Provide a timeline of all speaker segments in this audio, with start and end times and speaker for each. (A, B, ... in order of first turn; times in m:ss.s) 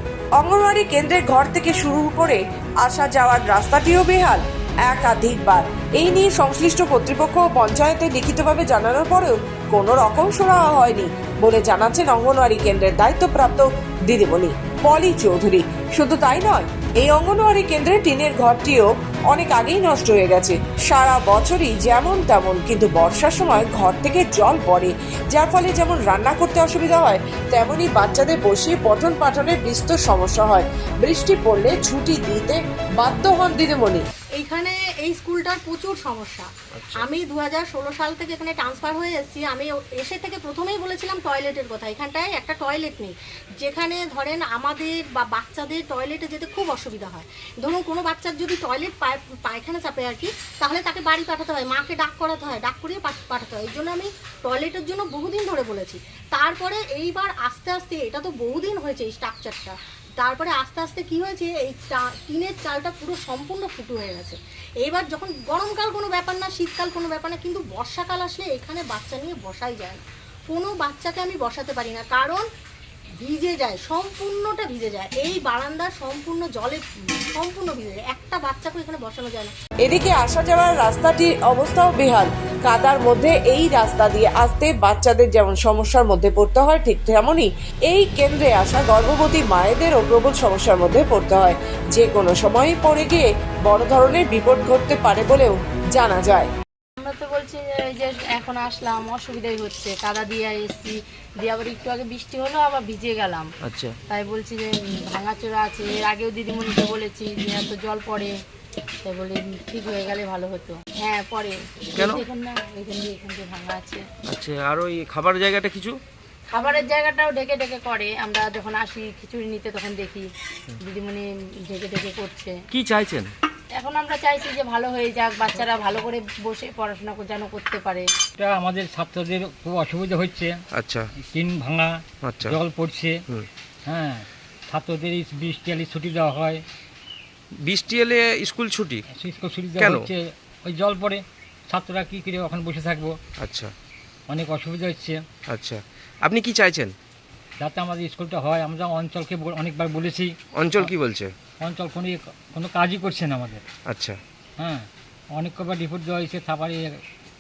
0:00.4-0:34.1 A
0:34.4-1:12.4 B
0:36.8-0:37.0 C
1:13.2-1:19.5 B
1:19.8-1:36.5 A
1:37.0-1:43.5 D
1:43.6-1:44.0 C
1:44.1-1:48.3 D
1:49.0-1:54.0 D
1:52.0-1:52.2 C
1:54.3-1:56.0 C
1:56.5-2:00.3 D
2:00.8-2:02.6 D
2:02.7-2:03.3 C
2:03.8-2:08.1 D
2:08.4-2:10.5 E
2:10.8-2:11.1 C
2:11.2-2:13.2 E
2:12.2-2:12.5 C
2:13.9-2:16.6 E
2:17.6-2:19.0 C
2:19.1-2:23.2 E
2:19.8-2:20.1 C
2:23.4-2:23.7 C
2:24.3-2:25.2 E
2:25.5-2:26.9 C
2:27.6-2:30.9 E
2:30.6-2:31.3 C
2:31.6-2:33.6 E
2:33.9-2:34.2 C
2:34.6-2:36.9 E